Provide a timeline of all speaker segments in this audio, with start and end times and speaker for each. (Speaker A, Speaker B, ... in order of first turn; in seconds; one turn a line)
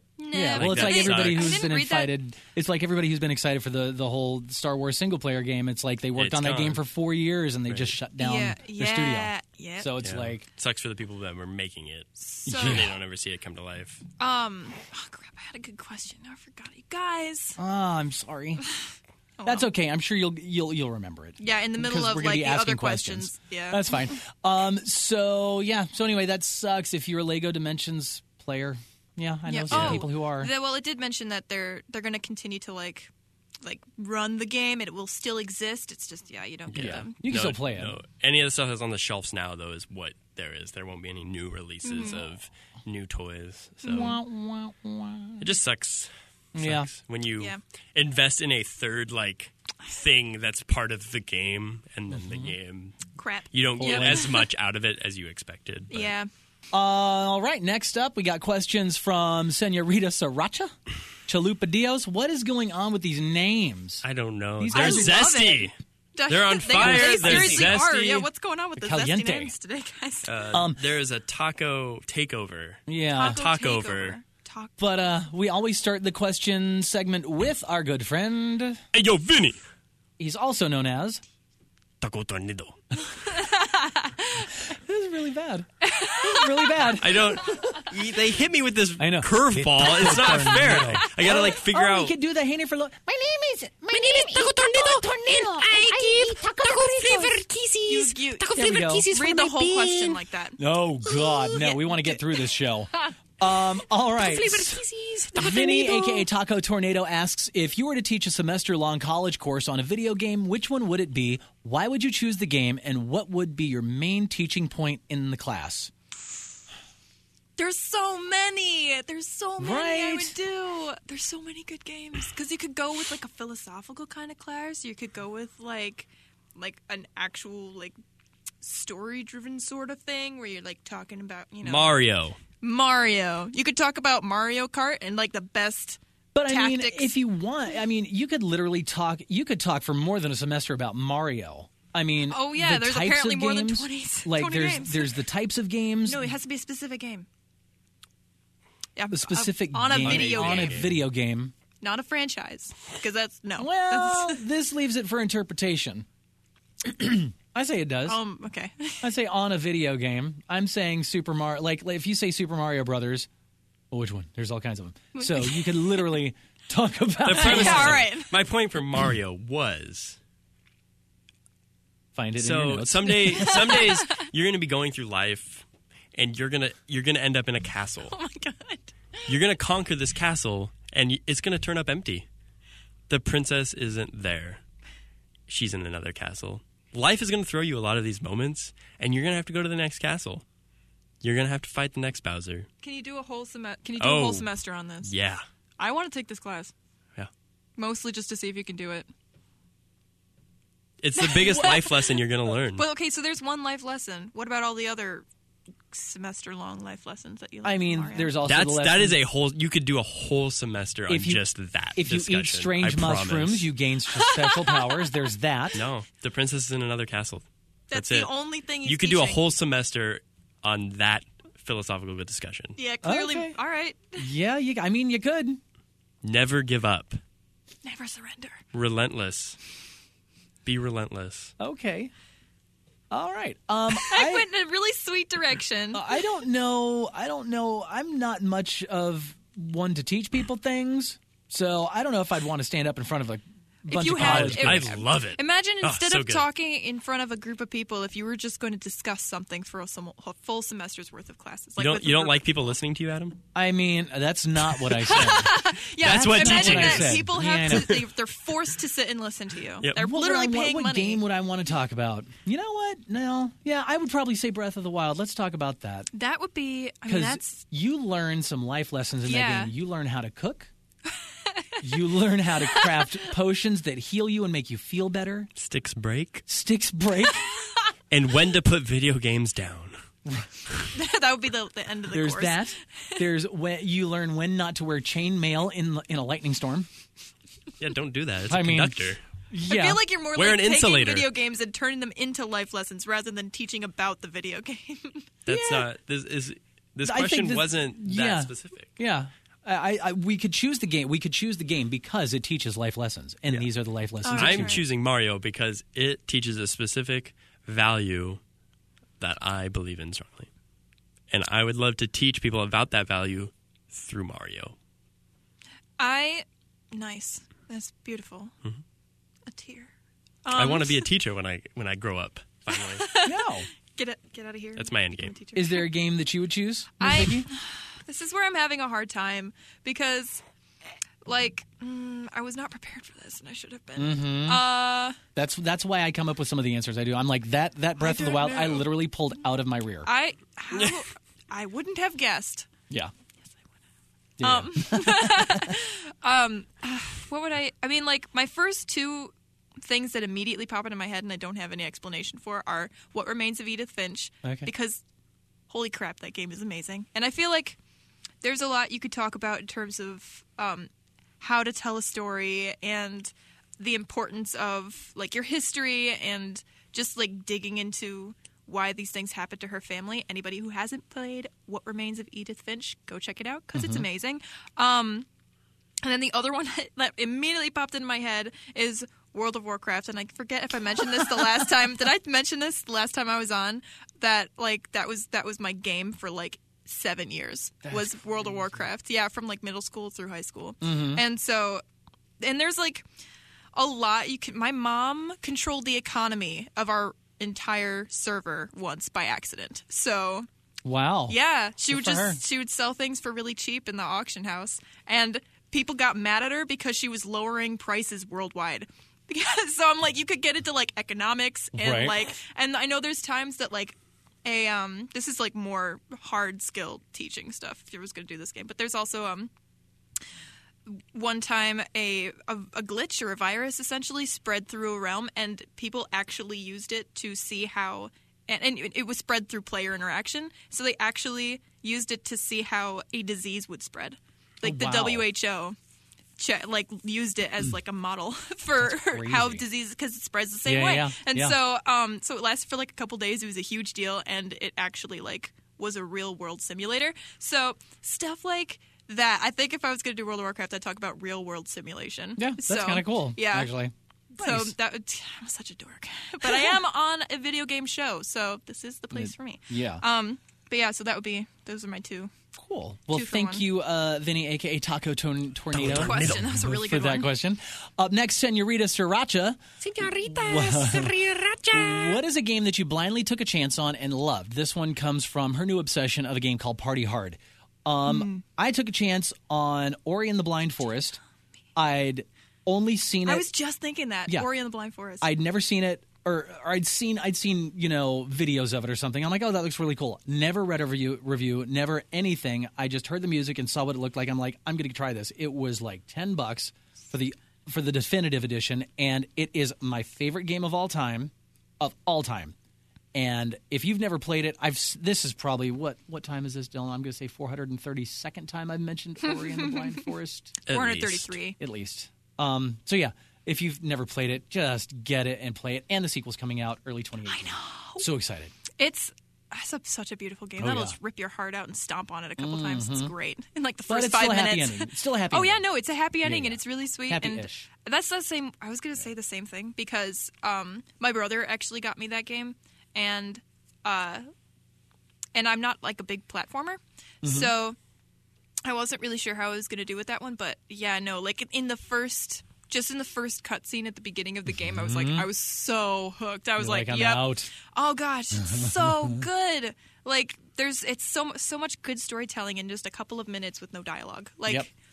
Speaker A: 0.2-2.1
Speaker B: 0.3-10.4
Speaker C: 0.5-1.6
Speaker C: 6.2-6.8
Speaker C: 7.7-8.0
Speaker A: 8.2-9.9
Speaker C: 10.0-14.0
Speaker A: 12.2-12.9
Speaker B: 12.5-12.9
Speaker A: 14.2-17.6
Speaker B: 17.6-18.6
Speaker A: 19.4-19.7
Speaker B: 19.4-30.5
Speaker A: 21.4-24.1
Speaker A: 29.4-33.1
Speaker C: 29.7-30.0
Speaker A: 33.6-37.1
Speaker C: 36.7-44.2
Speaker B: 36.7-38.0
Speaker A: 41.8-42.2
Speaker B: 43.8-45.5
Speaker C: 45.4-56.1
Speaker B: 46.5-46.9
Speaker B: 52.1-52.5
Speaker A: 53.2-54.5
Speaker B: 53.8-54.3
Speaker A: 55.9-56.3
Speaker B: 56.7-60.7
Speaker B: 61.2-64.0
Speaker C: 64.0-65.7
Speaker B: 64.6-65.3
Speaker A: 64.7-70.3
Speaker C: 66.3-68.3
Speaker B: 66.7-67.8
Speaker B: 68.8-69.5
Speaker C: 70.2-74.2
Speaker B: 70.5-70.9
Speaker B: 72.9-73.4
Speaker A: 73.1-74.8
Speaker B: 74.8-78.8
Speaker C: 78.9-79.6
Speaker B: 80.2-81.2
Speaker C: 82.0-82.8
Speaker A: 83.3-84.5
Speaker B: 84.6-87.8
Speaker A: 85.8-86.8
Speaker C: 87.0-92.1
Speaker B: 89.0-97.2
Speaker D: 93.9-100.2
Speaker A: 97.8-100.6
Speaker B: 98.4-99.2
Speaker B: 100.6-115.9
Speaker A: 101.6-102.0
Speaker D: 104.2-106.0
Speaker A: 117.6-128.0
Speaker B: 119.6-120.3
Speaker A: 128.6-132.0
Speaker C: 131.6-132.4
Speaker A: 132.6-137.1
Speaker B: 136.3-146.3
Speaker A: 142.3-145.1
Speaker A: 146.0-147.3
Speaker A: 148.9-150.8
Speaker B: 149.1-151.5
Speaker C: 149.9-150.9
Speaker A: 151.8-154.4
Speaker B: 153.6-156.1
Speaker B: 156.8-158.2
Speaker A: 158.0-159.1
Speaker B: 159.0-163.3
Speaker B: 163.9-168.0
Speaker A: 165.1-166.0
Speaker C: 167.2-170.2
Speaker A: 167.3-168.3
Speaker B: 172.1-173.8
Speaker C: 172.4-178.2
Speaker A: 178.1-179.2
Speaker C: 179.3-182.2
Speaker C: 183.1-184.6
Speaker C: 185.5-190.4
Speaker C: 191.2-192.7
Speaker A: 192.8-195.1
Speaker C: 194.0-194.5
Speaker C: 195.0-195.4
Speaker A: 195.8-196.7
Speaker A: 197.8-199.1
Speaker C: 201.0-202.8
Speaker A: 201.2-202.2
Speaker A: 202.7-205.2
Speaker A: 205.9-208.3
Speaker B: 207.6-209.2
Speaker C: 208.4-213.7
Speaker B: 211.1-215.8
Speaker A: 214.2-215.1
Speaker C: 215.7-218.3
Speaker A: 217.9-219.4
Speaker C: 218.8-222.8
Speaker A: 222.8-224.2
Speaker B: 223.0-223.6
Speaker B: 224.2-225.6
Speaker C: 226.2-227.2
Speaker A: 227.8-228.6
Speaker C: 228.7-229.6
Speaker C: 230.6-231.5
Speaker B: 231.6-232.1
Speaker B: 233.1-234.4
Speaker A: 234.0-236.2
Speaker B: 235.9-245.0
Speaker A: 243.9-252.7
Speaker C: 244.1-246.4
Speaker C: 251.8-253.4
Speaker B: 253.5-258.0
Speaker A: 254.9-261.2
Speaker C: 255.1-258.1
Speaker B: 259.9-266.1
Speaker A: 266.1-267.6
Speaker B: 267.1-270.7
Speaker A: 269.2-269.7
Speaker A: 271.4-271.8
Speaker B: 271.8-275.5
Speaker C: 275.6-276.4
Speaker B: 276.5-277.4
Speaker C: 278.1-280.0
Speaker A: 280.9-283.2
Speaker B: 282.1-286.9
Speaker C: 287.8-289.2
Speaker B: 288.5-290.0
Speaker A: 289.6-295.3
Speaker C: 290.3-291.3
Speaker C: 295.4-298.9
Speaker B: 295.5-295.9
Speaker B: 297.0-304.8
Speaker A: 304.2-304.8
Speaker C: 304.3-308.4
Speaker C: 309.2-310.5
Speaker C: 311.3-314.7
Speaker A: 316.0-318.5
Speaker A: 319.5-319.9
Speaker A: 320.4-321.1
Speaker C: 320.5-323.0
Speaker A: 322.7-325.9
Speaker B: 323.2-323.7
Speaker C: 324.8-325.3
Speaker B: 325.5-327.5
Speaker A: 327.0-330.4
Speaker A: 331.2-335.2
Speaker B: 333.9-334.6
Speaker B: 335.3-340.1
Speaker A: 338.0-338.9
Speaker A: 340.0-342.7
Speaker C: 340.7-341.0
Speaker B: 344.4-345.8
Speaker A: 344.4-355.0
Speaker B: 354.4-354.7
Speaker A: 355.7-357.8
Speaker A: 358.4-375.3
Speaker B: 373.7-374.1
Speaker A: 376.0-391.8
Speaker B: 387.9-388.8
Speaker B: 390.8-391.2
Speaker A: 392.4-393.1
Speaker A: 393.7-400.5
Speaker B: 400.8-401.4
Speaker A: 401.3-419.5
Speaker B: 401.9-402.4
Speaker B: 411.7-412.3
Speaker A: 420.9-435.8
Speaker B: 434.6-435.3
Speaker A: 436.4-453.7
Speaker B: 438.8-439.6
Speaker B: 440.6-441.6
Speaker B: 452.4-454.7
Speaker A: 454.3-462.3
Speaker B: 456.4-456.8
Speaker B: 459.1-460.0
Speaker B: 462.5-471.2
Speaker A: 463.1-463.6
Speaker C: 465.7-466.7
Speaker A: 465.8-467.3
Speaker D: 470.0-470.6
Speaker D: 471.3-471.6
Speaker B: 471.7-481.2
Speaker A: 478.0-478.4
Speaker B: 481.8-483.5
Speaker A: 483.2-485.3
Speaker B: 485.2-502.5
Speaker B: 503.1-510.6
Speaker C: 510.6-511.4
Speaker A: 510.7-511.6
Speaker B: 511.6-518.5
Speaker A: 517.3-518.0
Speaker A: 518.8-534.2
Speaker B: 520.6-521.0
Speaker B: 522.4-523.1
Speaker B: 523.9-525.6
Speaker B: 526.2-527.7
Speaker A: 535.3-537.8
Speaker B: 537.2-537.5
Speaker A: 538.6-554.7
Speaker B: 544.5-545.3
Speaker B: 546.6-547.5
Speaker B: 548.4-549.2